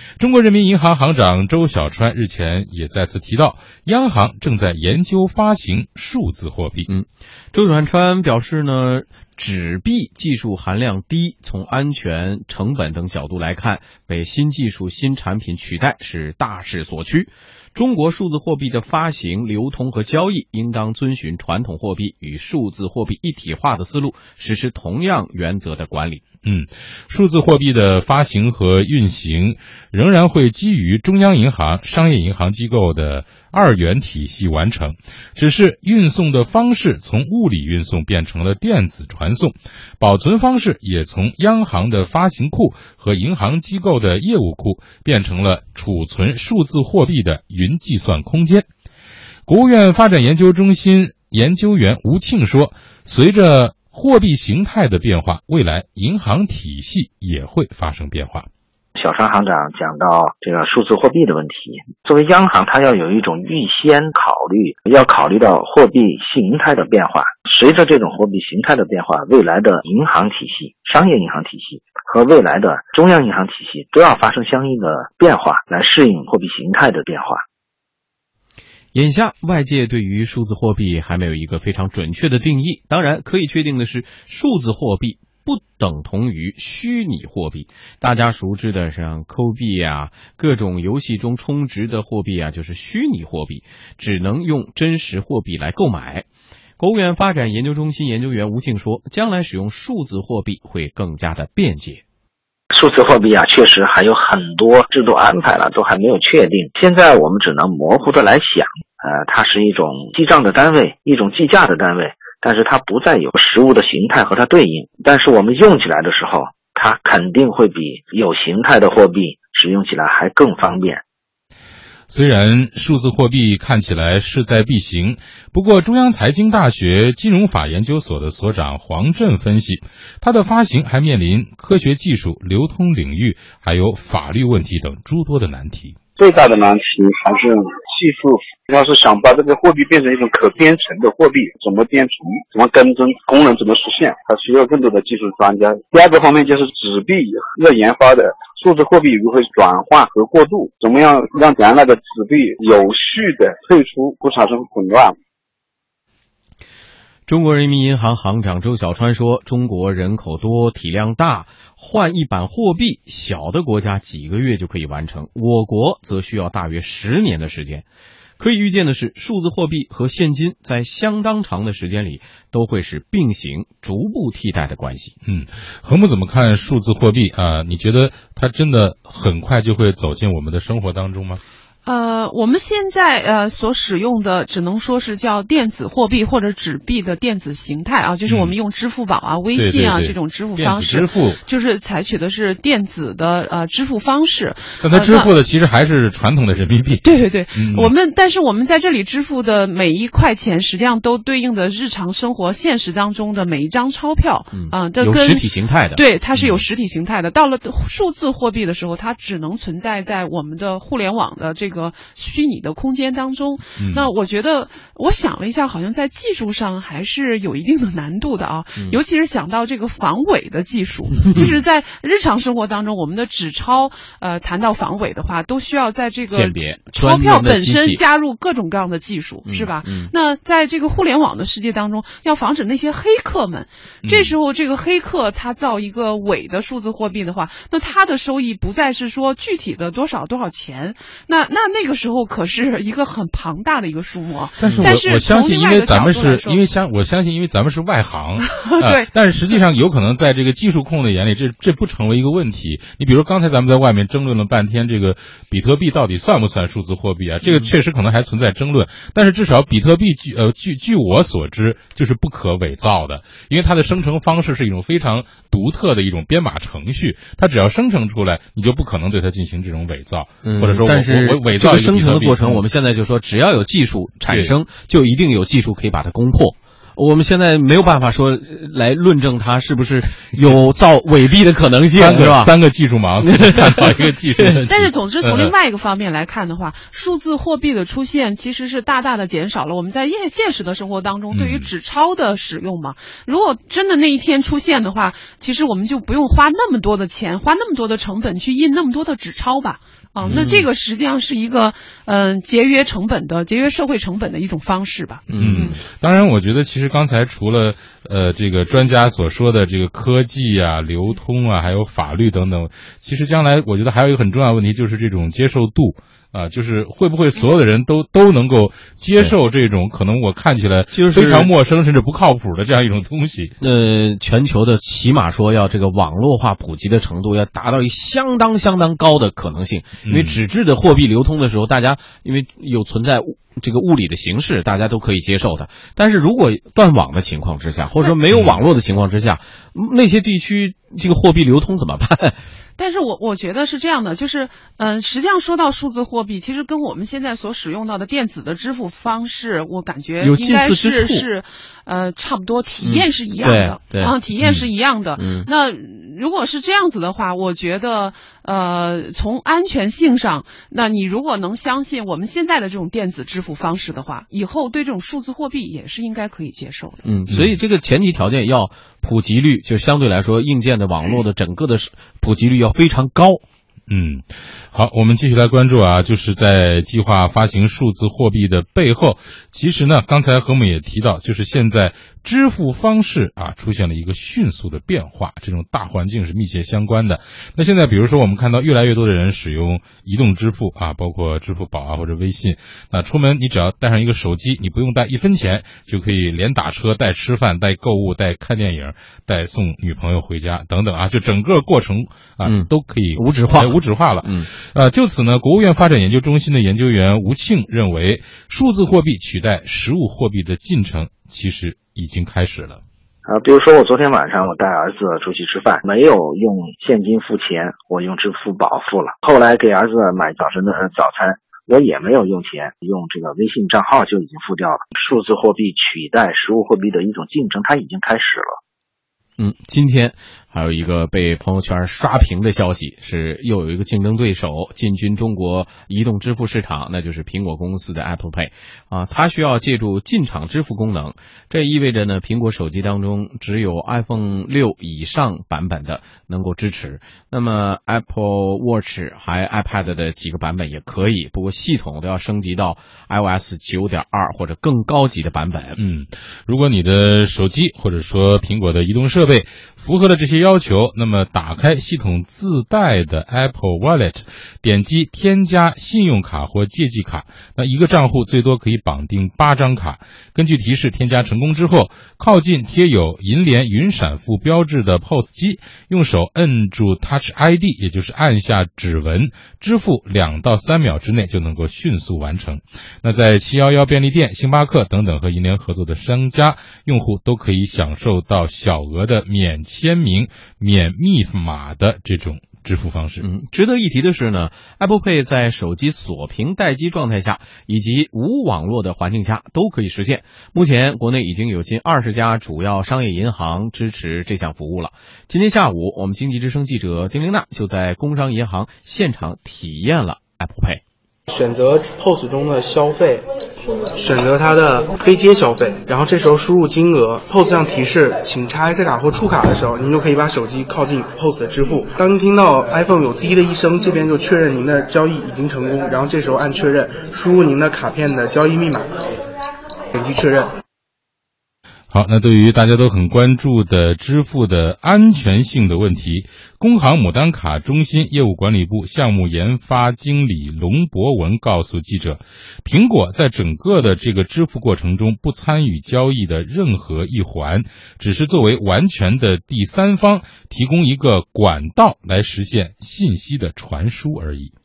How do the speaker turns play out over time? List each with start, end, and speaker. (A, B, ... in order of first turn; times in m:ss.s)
0:00.2-0:06.9 A
0:06.9-0:26.2 B
0:26.4-0:48.6 A
0:49.5-0:58.5 A
0:59.0-1:17.4 C
1:18.9-1:36.2 B
1:36.8-1:42.0 B
1:42.7-2:01.0 C
2:02.1-2:16.0 A
2:16.2-2:35.2 D
2:37.3-2:47.8 B
2:48.4-2:55.1 B
2:55.2-3:01.4 A
3:01.8-3:15.3 E
3:08.2-3:08.5 A
3:09.5-3:11.4 A
3:14.8-3:17.9 A
3:17.0-4:06.6 E
3:24.5-3:26.0 B
3:26.3-3:26.6 A
3:33.8-3:34.1 A
3:46.3-3:48.0 B
3:49.4-3:50.1 B
3:54.0-3:54.4 A
4:04.6-4:32.6 A
4:04.6-4:04.9 B
4:08.4-4:09.6 E
4:17.4-4:17.7 B
4:30.4-4:42.5 B
4:34.3-4:34.5 A
4:41.9-4:45.5 A
4:43.2-4:44.4 B
4:44.7-5:05.8 E
4:51.3-4:51.7 A
5:00.2-5:00.7 B
5:05.3-5:05.8 B
5:05.4-5:23.5 A
5:20.9-5:21.5 B
5:23.6-5:42.4 B
5:30.0-5:30.4 A
5:38.3-5:38.6 A
5:42.8-6:07.0 E
5:50.2-5:51.2 B
5:52.8-5:54.1 B
5:55.2-5:55.5 B
6:07.0-6:13.4 B
6:07.3-6:07.6 A
6:13.9-6:52.8 A
6:42.4-6:44.5 B
6:53.3-7:08.5 C
7:09.4-7:35.8 B
7:35.8-8:13.2 A
8:13.2-8:30.8 B
8:31.3-8:33.2 F
8:33.9-8:48.9 F
8:49.9-8:50.5 F
8:51.9-9:14.5 A